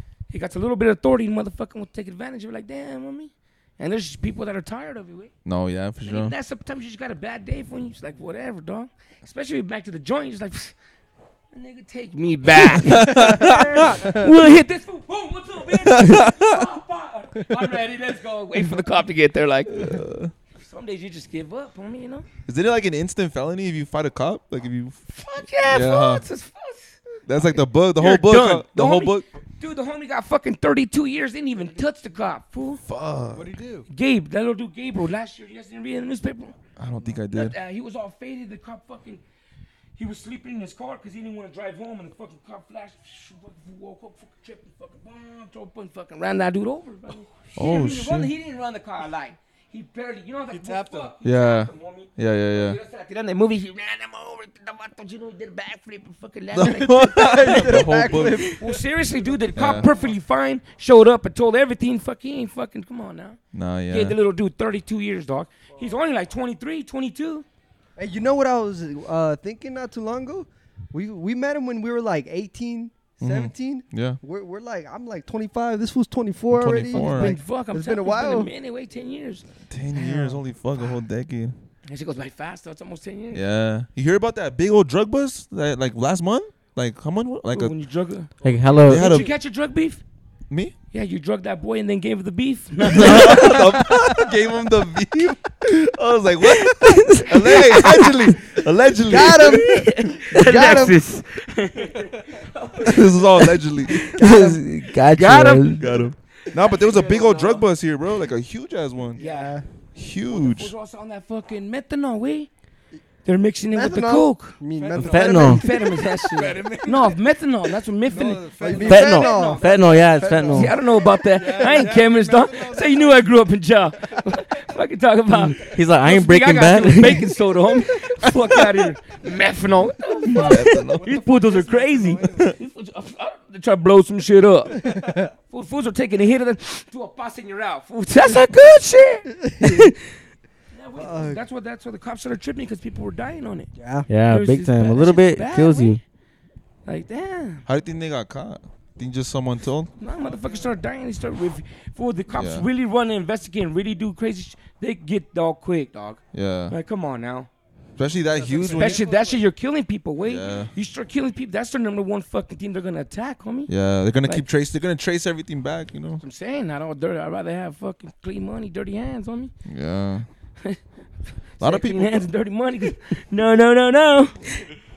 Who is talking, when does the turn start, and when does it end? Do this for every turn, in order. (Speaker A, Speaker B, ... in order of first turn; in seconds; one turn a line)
Speaker A: 0.3-5.3
Speaker B: 5.5-6.3
Speaker A: 6.0-10.7
Speaker A: 11.5-20.0
Speaker B: 12.8-14.2
Speaker B: 15.9-16.6
Speaker B: 19.7-20.3
Speaker A: 20.6-22.3
Speaker B: 22.5-25.0
Speaker A: 25.1-32.8
Speaker B: 25.7-26.2
Speaker B: 27.3-29.3
Speaker B: 32.9-33.5
Speaker C: 33.3-33.9
Speaker A: 33.9-39.2
Speaker B: 36.8-37.5
Speaker A: 40.0-58.0
Speaker B: 47.5-48.3
Speaker C: 50.5-51.1
Speaker B: 51.2-52.8
Speaker B: 56.5-58.6
Speaker D: 56.9-58.8
Speaker A: 58.5-67.5
Speaker C: 59.2-60.2
Speaker B: 59.6-59.9
Speaker B: 63.5-64.2
Speaker C: 65.7-66.0
Speaker D: 68.0-78.5
Speaker B: 73.2-74.2
Speaker B: 76.5-77.4
Speaker A: 76.9-79.5
Speaker B: 79.7-81.5
Speaker D: 80.0-80.4
Speaker A: 81.9-83.4
Speaker B: 83.3-87.8
Speaker A: 87.5-90.0
Speaker C: 88.4-88.9
Speaker E: 88.4-89.3
Speaker B: 88.9-89.3
Speaker A: 90.9-94.3
Speaker B: 92.9-99.9
Speaker E: 96.8-98.1
Speaker A: 97.5-98.1
Speaker D: 99.0-101.0
Speaker A: 99.3-104.0
Speaker E: 100.4-101.0
Speaker C: 102.0-102.4
Speaker B: 102.9-104.4
Speaker E: 104.1-105.9
Speaker D: 104.1-104.7
Speaker A: 104.8-107.7
Speaker B: 105.6-109.2
Speaker A: 109.2-109.6
Speaker D: 109.2-109.6
Speaker B: 110.0-110.7
Speaker A: 110.3-112.5
Speaker A: 113.2-139.3
Speaker D: 113.7-115.5
Speaker C: 114.7-117.2
Speaker E: 115.0-115.6
Speaker C: 118.0-123.5
Speaker D: 118.6-120.8
Speaker E: 118.8-120.8
Speaker E: 125.5-127.3
Speaker B: 130.3-131.1
Speaker C: 130.4-132.5
Speaker D: 139.3-139.9
Speaker A: 140.7-143.7
Speaker D: 141.0-141.4
Speaker D: 143.8-144.1
Speaker E: 144.1-146.0
Speaker A: 144.3-146.0
Speaker A: 146.8-147.7
Speaker B: 147.7-149.9
Speaker A: 150.0-157.5
Speaker C: 150.2-150.8
Speaker B: 152.3-152.7
Speaker B: 156.3-156.7
Speaker B: 158.0-159.0
Speaker C: 158.3-159.5
Speaker A: 158.7-163.7
Speaker B: 160.2-160.7
Speaker B: 163.7-166.2
Speaker A: 166.2-169.5
Speaker B: 169.7-170.3
Speaker A: 171.6-174.6
Speaker B: 171.6-172.2